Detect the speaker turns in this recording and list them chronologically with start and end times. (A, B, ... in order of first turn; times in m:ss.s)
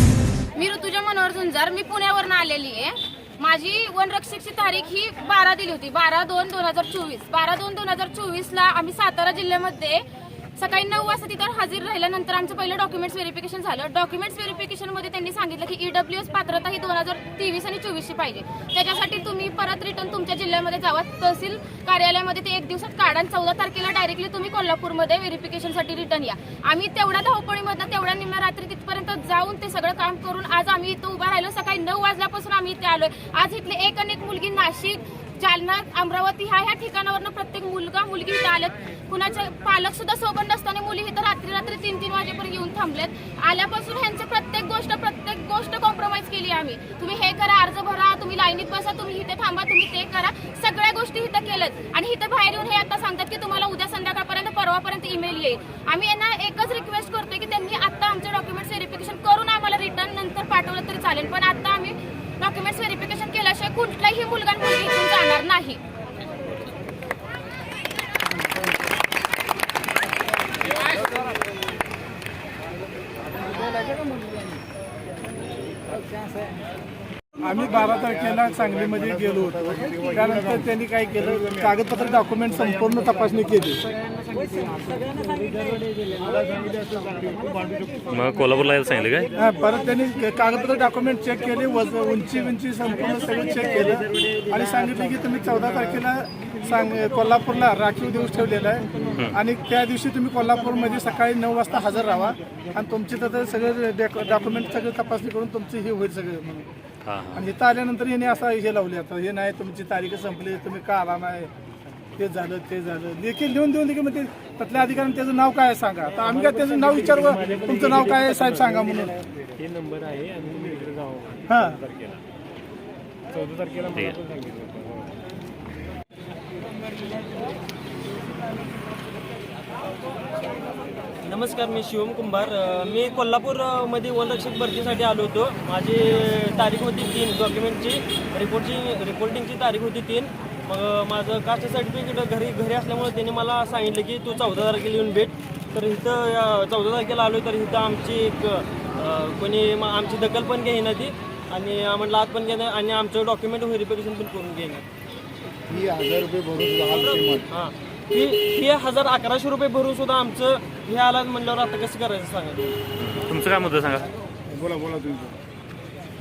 0:00.6-0:10.0 A
0:10.6-1:05.8 A
1:17.4-1:23.8 B
1:28.1-1:29.3 C
1:29.4-1:46.7 B
1:39.1-1:39.4 C
1:47.0-1:47.5 C
1:47.3-1:51.5 B
1:52.2-1:59.1 B
1:56.2-2:02.2 D
2:01.5-2:01.8 B
2:03.3-2:05.1 D
2:11.2-2:34.8 E
2:35.7-2:36.0 C
2:36.8-2:42.7 E
2:43.0-2:44.1 C